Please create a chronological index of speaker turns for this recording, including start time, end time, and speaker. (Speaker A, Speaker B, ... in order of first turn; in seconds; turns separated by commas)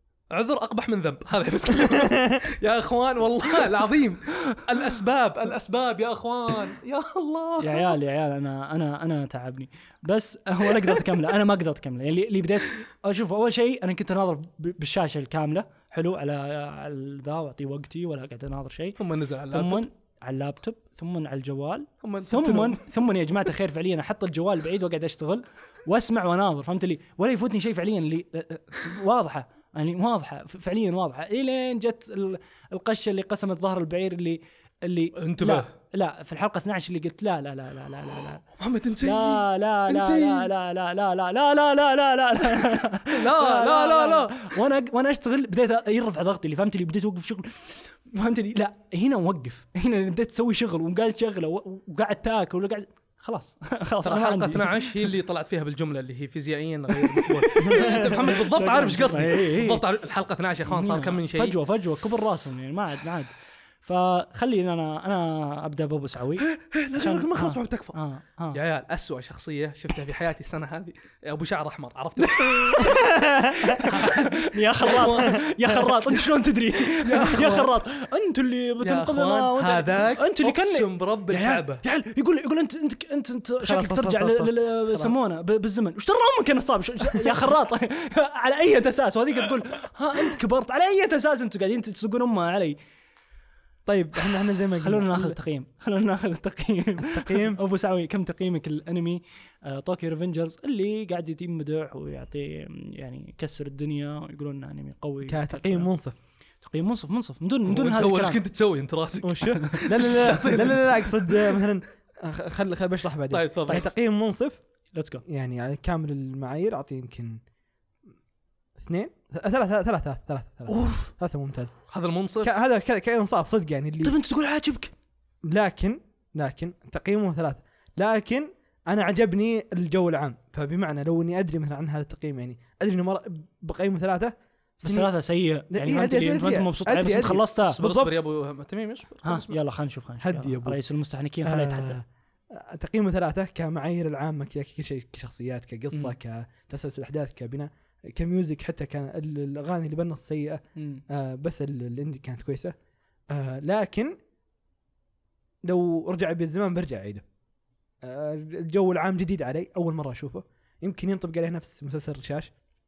Speaker A: 0.3-8.0, Speaker B: 1.8-2.5, Speaker C: 7.6-19.0, Speaker A: 10.7-11.0, Speaker A: 19.0-19.9, Speaker C: 19.5-38.4, Speaker A: 22.0-22.8, Speaker A: 35.1-35.7, Speaker A: 38.6-40.5, Speaker C: 39.0-55.1, Speaker A: 43.1-44.5, Speaker A: 54.0-61.6, Speaker C: 56.9-59.8, Speaker B: 57.6-58.1, Speaker C: 60.7-63.3, Speaker C: 63.8-66.4, Speaker A: 66.4-67.9, Speaker C: 67.0-68.6, Speaker A: 68.5-73.0, Speaker C: 72.2-92.8, Speaker B: 72.9-73.8, Speaker A: 73.8-76.3, Speaker A: 76.8-77.8, Speaker A: 78.8-81.8, Speaker B: 83.6-85.2, Speaker B: 93.8-95.4, Speaker C: 94.8-105.9, Speaker B: 97.0-97.6, Speaker B: 105.2-106.1, Speaker C: 106.6-108.4, Speaker A: 107.7-111.6, Speaker B: 109.2-114.6, Speaker C: 109.6-109.9, Speaker A: 113.3-113.9, Speaker C: 114.9-115.2, Speaker B: 115.2-117.4, Speaker B: 118.8-121.8, Speaker C: 120.7-121.1, Speaker A: 121.9-122.5, Speaker B: 122.4-124.2, Speaker C: 124.0-124.9, Speaker B: 125.5-135.1, Speaker C: 134.8-137.8, Speaker B: 135.7-138.1, Speaker A: 137.6-139.6, Speaker C: 139.2-142.0, Speaker B: 140.2-140.8, Speaker B: 141.4-152.7, Speaker C: 150.8-151.0, Speaker B: 153.3-154.1, Speaker B: 155.6-157.2, Speaker B: 158.0-162.5